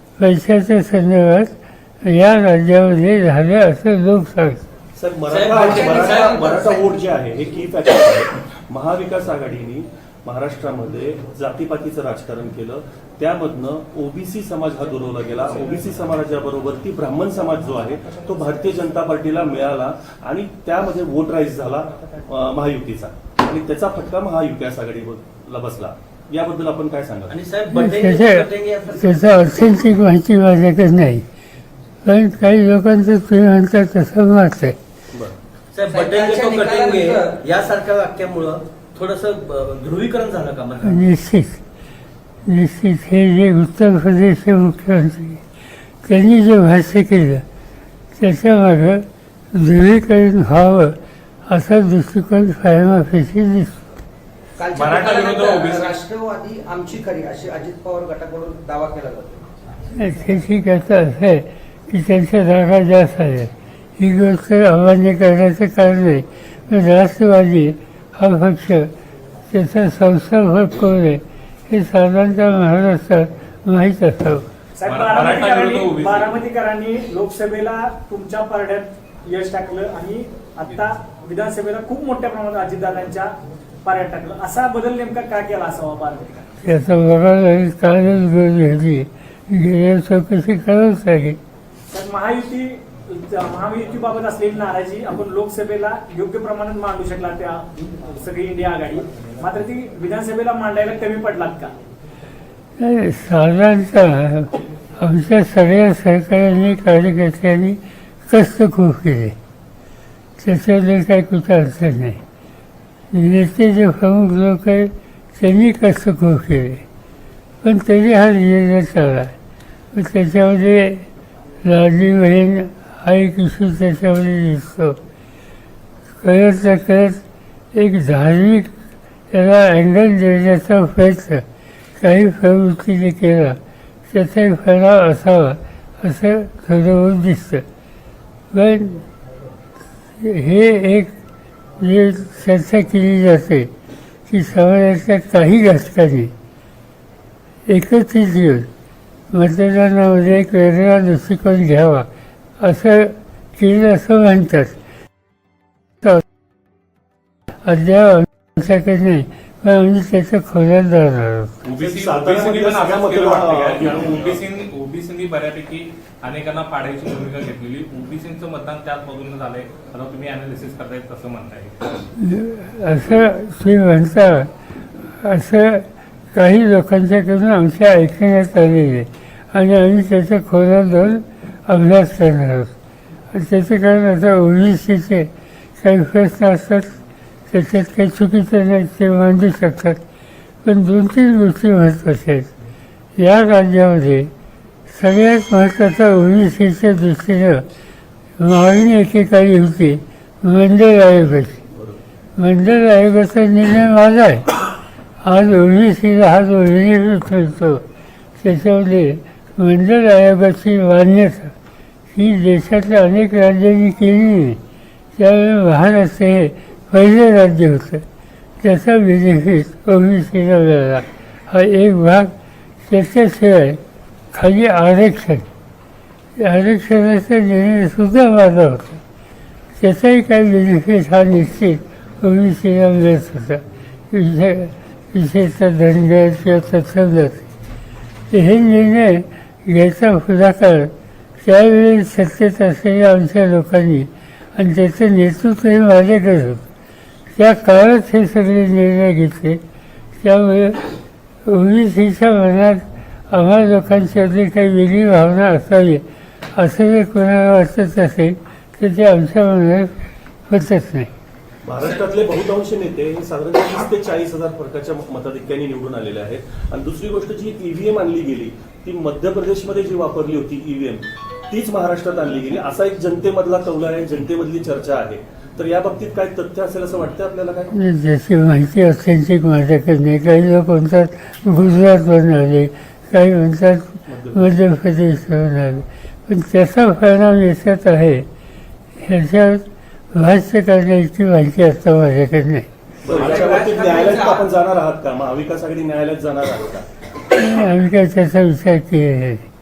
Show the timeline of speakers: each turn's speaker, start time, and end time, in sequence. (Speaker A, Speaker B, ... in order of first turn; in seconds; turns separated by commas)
Speaker A: 0.2-4.7, Speaker B: 5.0-27.4, Speaker C: 5.3-7.0, Speaker D: 27.3-29.2, Speaker A: 27.7-31.3, Speaker A: 32.0-34.8, Speaker D: 35.8-41.0, Speaker C: 35.9-37.4, Speaker A: 40.8-41.6, Speaker A: 42.5-45.4, Speaker A: 46.0-47.5, Speaker A: 48.1-53.9, Speaker C: 54.6-59.5, Speaker E: 54.7-56.0, Speaker A: 60.0-68.9, Speaker A: 69.5-74.5, Speaker F: 74.8-83.3, Speaker E: 74.9-76.4, Speaker F: 83.8-86.5, Speaker A: 86.6-91.4, Speaker F: 91.9-101.7, Speaker A: 102.8-109.4, Speaker A: 110.4-112.2, Speaker A: 113.1-116.8, Speaker A: 117.6-119.4, Speaker A: 119.9-121.1, Speaker A: 121.6-125.0, Speaker A: 126.2-127.2, Speaker A: 127.7-128.7, Speaker A: 129.3-131.4, Speaker A: 132.0-137.7, Speaker A: 138.5-139.1, Speaker A: 140.2-141.1, Speaker A: 141.8-143.7, Speaker A: 144.3-146.3, Speaker A: 147.7-148.7, Speaker A: 149.3-152.1, Speaker A: 152.6-154.8, Speaker A: 157.6-161.6, Speaker E: 161.7-171.8, Speaker B: 161.7-164.4, Speaker A: 172.2-174.5, Speaker A: 175.2-182.7, Speaker A: 183.3-187.0, Speaker A: 187.5-190.0, Speaker A: 190.6-192.5, Speaker A: 193.2-194.3, Speaker A: 194.9-197.7, Speaker A: 198.4-201.6, Speaker B: 201.7-202.0, Speaker A: 202.4-204.5, Speaker A: 205.2-207.8, Speaker A: 208.4-211.6, Speaker A: 212.1-214.6, Speaker A: 215.2-218.1, Speaker A: 218.6-222.3, Speaker A: 222.9-225.5, Speaker A: 226.4-229.0, Speaker A: 229.8-237.5, Speaker A: 238.3-246.7, Speaker A: 247.3-249.6, Speaker A: 250.2-250.9, Speaker A: 251.4-256.0, Speaker A: 256.6-261.1, Speaker B: 261.6-277.7, Speaker A: 277.7-288.3, Speaker B: 284.1-284.5, Speaker A: 289.0-292.7, Speaker B: 293.0-296.9, Speaker C: 293.1-294.6, Speaker A: 297.3-299.4